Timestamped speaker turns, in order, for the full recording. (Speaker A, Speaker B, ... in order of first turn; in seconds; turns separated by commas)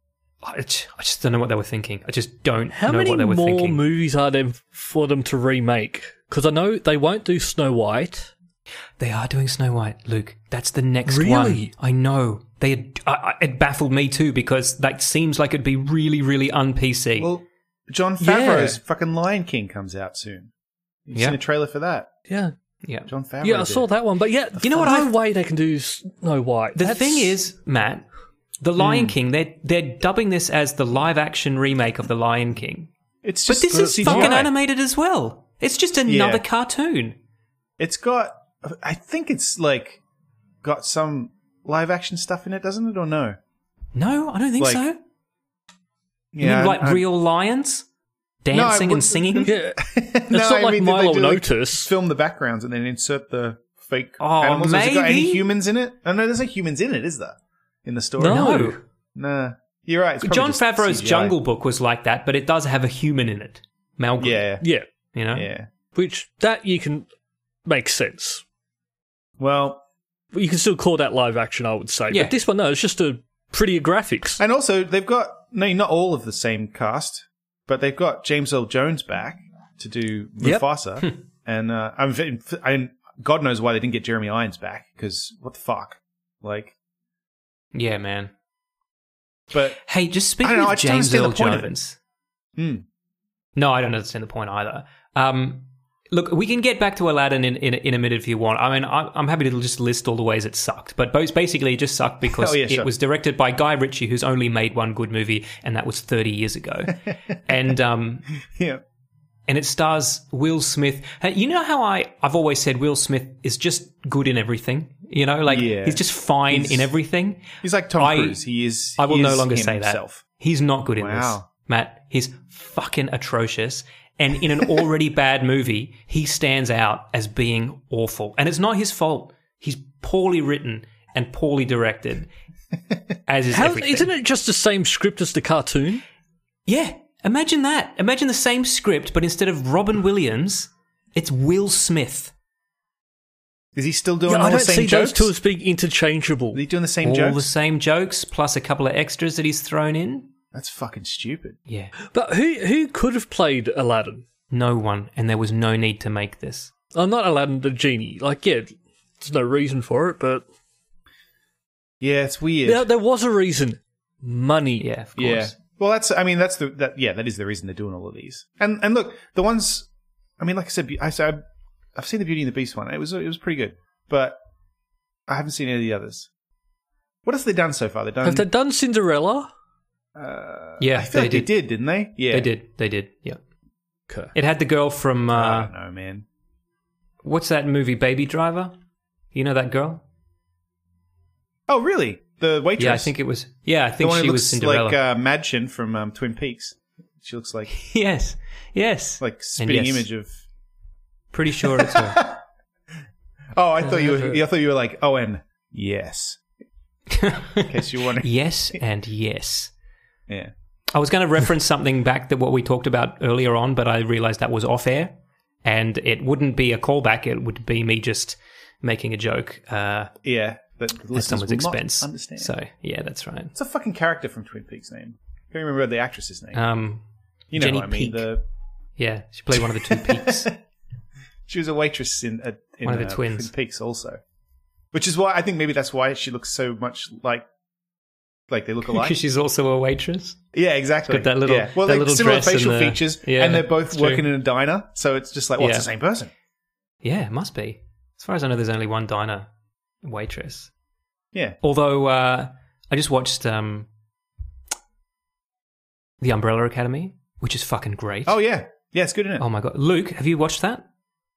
Speaker A: 0.4-3.8, Speaker B: 2.7-8.3, Speaker A: 9.0-17.3, Speaker B: 11.1-11.7, Speaker C: 17.2-20.5, Speaker B: 18.2-18.8, Speaker C: 21.1-22.1, Speaker A: 22.8-23.1, Speaker C: 23.1-23.9, Speaker B: 23.4-27.4, Speaker A: 24.6-25.1, Speaker A: 26.8-28.1, Speaker A: 28.6-32.9, Speaker C: 28.8-29.2, Speaker C: 33.2-34.5, Speaker A: 33.5-37.2, Speaker B: 34.0-34.4, Speaker C: 36.1-36.4, Speaker C: 37.8-40.0, Speaker C: 40.6-43.4, Speaker A: 44.0-45.0, Speaker C: 44.6-44.8, Speaker C: 46.3-47.0, Speaker A: 46.4-47.9, Speaker A: 48.4-49.5, Speaker C: 48.5-58.5, Speaker B: 49.4-51.9, Speaker A: 54.2-55.5, Speaker B: 58.2-58.8, Speaker A: 58.2-58.8, Speaker C: 59.1-61.4, Speaker A: 60.2-64.5, Speaker C: 64.2-64.6, Speaker B: 64.6-64.9, Speaker A: 65.1-65.5, Speaker C: 65.3-65.7, Speaker B: 65.9-67.1, Speaker B: 67.7-68.4, Speaker C: 69.4-69.8, Speaker B: 70.3-74.4, Speaker C: 74.4-86.7, Speaker A: 87.7-88.3, Speaker C: 89.5-89.8, Speaker A: 89.8-92.0, Speaker C: 90.4-91.7, Speaker C: 92.6-92.8, Speaker A: 93.6-108.3, Speaker C: 102.3-102.9, Speaker C: 108.4-108.8, Speaker A: 109.5-118.4, Speaker C: 115.5-116.9, Speaker C: 117.5-120.2, Speaker A: 119.0-132.3, Speaker C: 121.0-121.5, Speaker A: 133.3-134.1, Speaker B: 133.5-136.0, Speaker A: 136.7-142.3, Speaker C: 143.8-145.3, Speaker B: 144.3-146.6, Speaker C: 146.5-147.5, Speaker A: 147.0-150.3, Speaker C: 150.5-151.6, Speaker B: 152.1-154.2, Speaker A: 154.5-156.7, Speaker B: 156.9-160.4, Speaker C: 162.0-162.9, Speaker B: 162.7-164.9, Speaker A: 164.8-165.5, Speaker C: 165.2-169.9, Speaker C: 170.4-171.4, Speaker C: 171.9-174.4, Speaker C: 175.3-176.3, Speaker C: 177.2-178.5, Speaker B: 178.2-179.5, Speaker C: 180.2-182.5, Speaker A: 180.8-181.5, Speaker A: 182.3-183.4, Speaker A: 184.3-185.7, Speaker C: 185.3-186.3, Speaker A: 187.2-188.7, Speaker A: 189.3-190.0, Speaker C: 191.7-193.1, Speaker A: 192.8-195.0, Speaker C: 194.0-197.7, Speaker A: 197.7-200.1, Speaker C: 199.2-200.4, Speaker A: 201.3-202.2, Speaker C: 201.6-202.4, Speaker C: 203.6-206.4, Speaker A: 203.8-204.4, Speaker A: 207.1-209.7, Speaker C: 207.6-208.3, Speaker A: 210.9-220.1, Speaker C: 220.2-222.5, Speaker A: 221.1-223.5, Speaker C: 223.5-226.6, Speaker A: 226.5-228.3, Speaker C: 227.5-228.4, Speaker A: 229.0-230.5, Speaker C: 229.5-230.6, Speaker C: 231.5-234.2, Speaker A: 232.8-233.5, Speaker C: 234.9-237.5, Speaker C: 238.5-239.2, Speaker A: 238.9-240.4, Speaker C: 240.5-246.3, Speaker A: 241.1-244.3, Speaker A: 245.6-245.9, Speaker A: 247.0-249.5, Speaker A: 250.0-250.7, Speaker A: 251.6-253.9, Speaker A: 256.2-258.4, Speaker C: 258.3-259.4, Speaker A: 259.4-260.9